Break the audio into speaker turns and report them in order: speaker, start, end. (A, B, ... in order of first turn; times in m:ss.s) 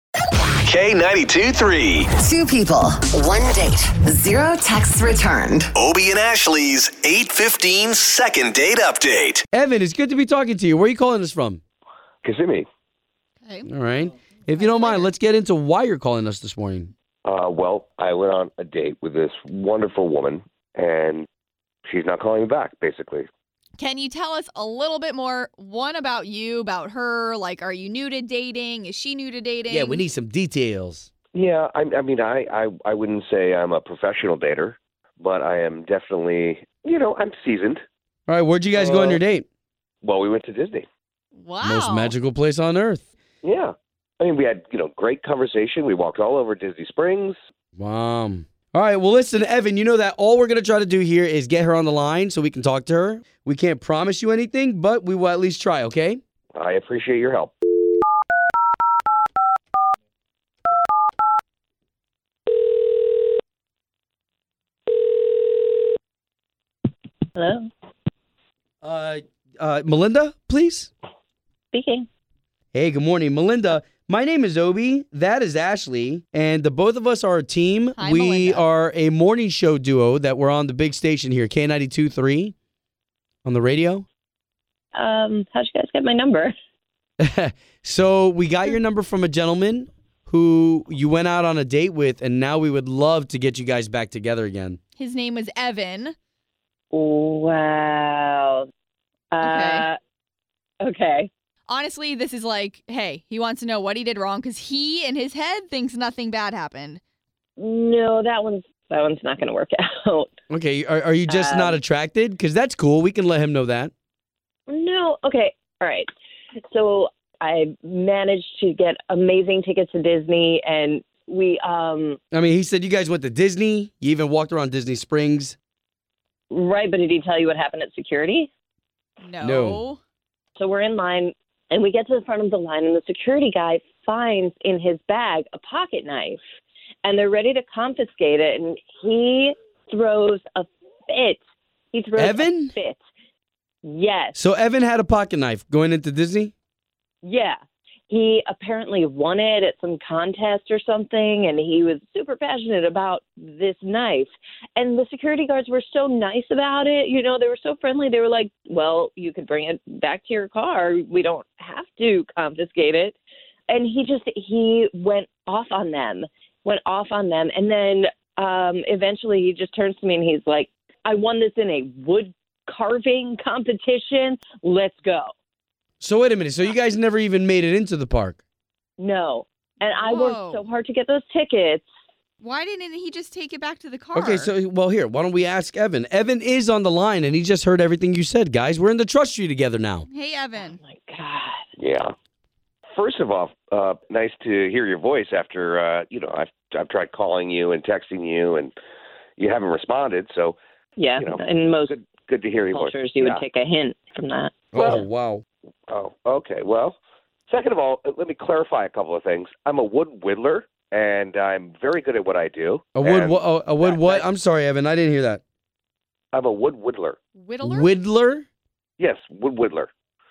0:00.6-0:02.1 A
0:02.2-0:05.7 B
0:05.8-0:09.4 A
0:09.5-0:11.6 C
0:12.2-0:12.7 D
0:13.4-0:13.7 E
0:13.6-0:16.9 C
0:14.5-0:15.1 E
0:17.2-0:21.3 D
0:21.8-0:23.3 D
0:23.8-0:30.0 E
0:29.7-0:31.1 C
0:31.3-0:37.8 D
0:38.3-0:39.4 C
0:38.7-0:39.2 D
0:40.0-0:40.8 D
0:41.4-0:42.1 E
0:41.6-0:43.0 C
0:43.4-0:47.4 D
0:47.8-0:56.2 C
0:56.5-0:57.5 D
1:07.3-1:07.7 F
1:08.8-1:10.9 C
1:11.7-1:12.1 F
1:12.7-1:22.5 C
1:18.0-1:18.6 E
1:23.4-1:24.0 C
1:24.9-1:26.5 F
1:27.2-1:34.8 C
1:35.0-1:36.1 E
1:36.9-1:38.6 F
1:39.3-1:40.0 F
1:39.4-1:39.9 E
1:40.8-1:41.3 F
1:41.7-1:47.0 E
1:47.6-1:50.3 F
1:50.5-1:53.9 C
1:51.3-1:51.8 F
1:54.7-1:56.1 F
1:56.7-2:02.2 F
2:02.3-2:05.5 C
2:06.5-2:08.5 F
2:09.2-2:10.0 E
2:09.4-2:09.8 C
2:10.6-2:16.4 F
2:17.0-2:21.4 F
2:21.9-2:23.0 F
2:22.2-2:22.8 C
2:23.8-2:24.4 F
2:24.3-2:26.5 C
2:27.2-2:27.6 F
2:28.1-2:43.2 F
2:43.7-2:55.3 F
2:56.0-2:58.4 C
2:59.0-3:01.9 F
3:00.0-3:00.6 E
3:02.4-3:04.5 E
3:04.1-3:10.0 C
3:10.1-3:10.8 E
3:10.6-3:11.6 F
3:11.8-3:12.1 D
3:12.9-3:18.7 D
3:19.4-3:20.6 D
3:21.0-3:21.9 F
3:21.2-3:23.4 D
3:22.7-3:25.0 F
3:24.7-3:25.4 C
3:24.8-3:25.0 D
3:25.9-3:27.0 D
3:27.5-3:34.3 D
3:33.0-3:35.4 C
3:36.3-3:37.2 D
3:37.3-3:37.9 E
3:37.6-3:38.5 C
3:39.0-3:39.9 D